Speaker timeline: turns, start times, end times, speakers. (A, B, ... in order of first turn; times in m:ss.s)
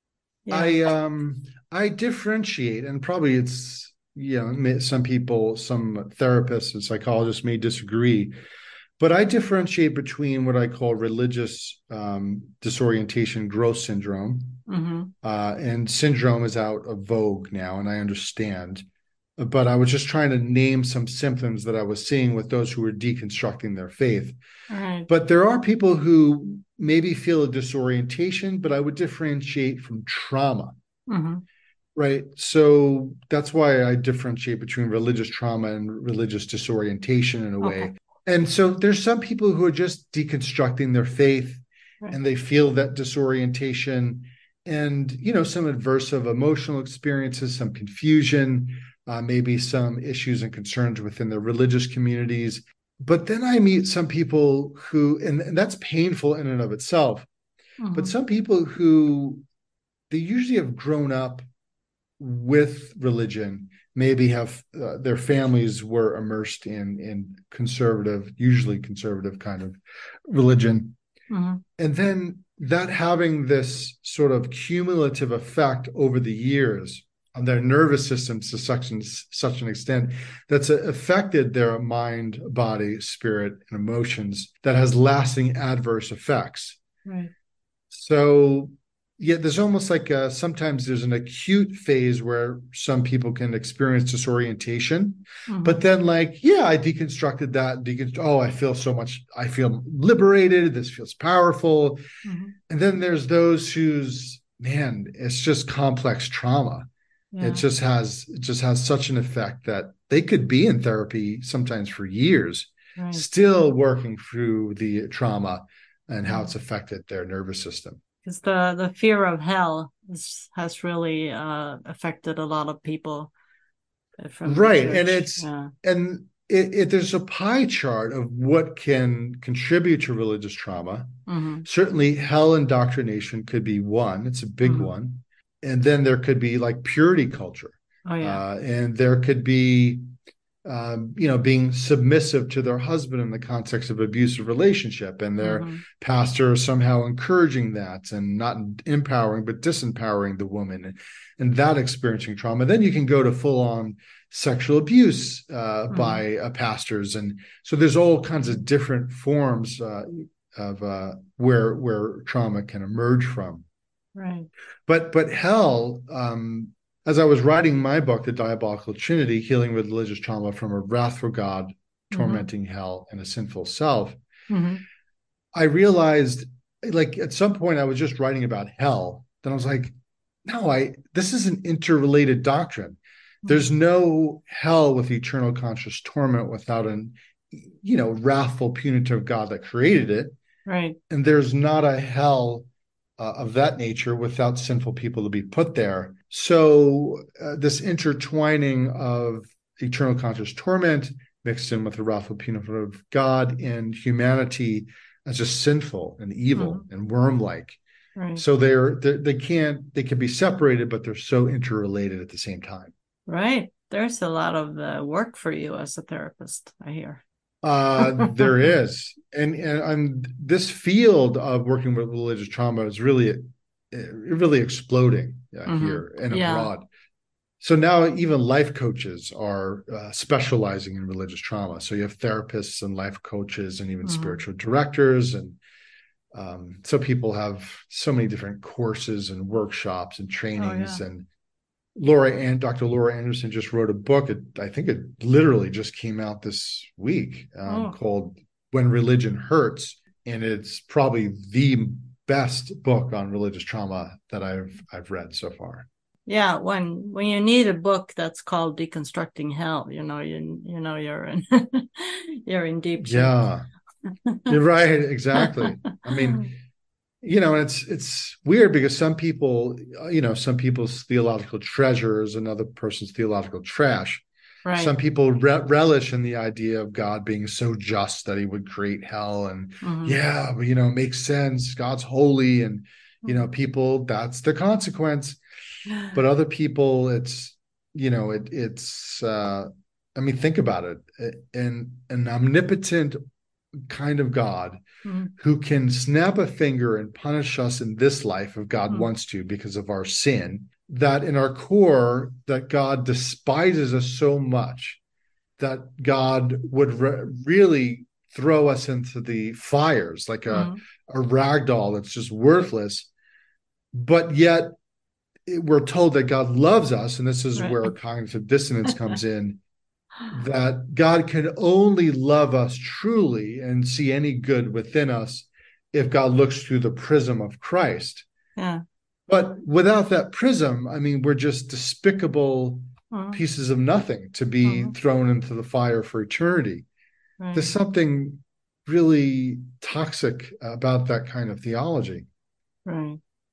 0:00.5-0:00.8 A
0:00.5-0:08.3 B
0:09.0-0:14.6 B
0:14.7-0:15.1 A
0:15.2-0:18.8 B
0:19.4-0:24.4 B
0:24.7-0:25.1 A
0:25.1-0:30.7 B
0:31.1-0:31.4 A
0:32.0-0:57.3 B
0:37.6-0:37.9 A
0:57.8-0:58.1 A
0:57.9-0:59.4 B
1:00.1-1:01.4 B
1:02.2-1:11.0 B
1:11.3-1:11.6 A
1:11.8-1:26.8 B
1:27.0-1:27.3 A
1:27.9-1:42.0 B
1:35.5-1:35.8 A
1:42.2-1:42.5 A
1:42.7-1:46.9 B
1:47.3-1:47.6 A
1:47.4-1:58.0 B
1:53.0-1:53.2 A
1:58.2-2:03.3 A
2:04.2-2:05.7 A
2:04.4-2:20.0 B
2:11.3-2:11.6 A
2:14.6-2:14.9 A
2:18.0-2:18.4 A
2:20.6-2:43.6 B
2:25.4-2:25.8 A
2:35.9-2:36.2 A
2:44.1-2:44.5 A
2:44.9-2:54.2 B
2:52.1-2:52.5 A
2:54.5-2:54.8 A
2:55.5-2:59.9 B
3:00.4-3:10.4 B
3:10.6-3:11.0 A
3:11.1-3:12.7 B
3:13.2-3:27.8 B
3:26.5-3:26.8 A
3:28.2-3:28.4 A
3:28.4-3:32.9 B
3:33.3-3:37.2 A
3:37.6-3:46.8 B
3:38.0-3:38.5 A
3:45.7-3:46.7 A
3:47.6-3:55.6 B
3:54.0-3:54.4 A
3:56.3-4:01.3 B
4:00.6-4:01.0 A
4:02.0-4:15.9 B
4:07.7-4:07.9 A
4:16.3-4:23.4 A
4:23.0-4:23.6 B
4:24.2-4:24.6 A
4:24.5-4:26.5 B
4:25.3-4:26.4 A
4:27.2-4:45.4 B
4:34.6-4:34.9 A
4:39.8-4:40.2 A
4:45.9-4:46.1 A
4:46.1-4:53.2 B
4:53.8-4:54.8 B
4:55.0-4:55.3 A
4:55.4-5:05.0 B
5:05.6-5:13.1 B
5:10.5-5:10.8 A
5:13.9-5:14.8 B
5:15.4-5:19.6 B
5:17.6-5:17.9 A
5:20.3-5:28.2 B
5:28.6-5:28.8 A
5:29.3-5:36.8 B
5:33.1-5:33.4 A
5:34.6-5:34.9 A
5:37.4-5:37.7 A
5:37.5-5:42.3 B
5:42.8-5:43.2 A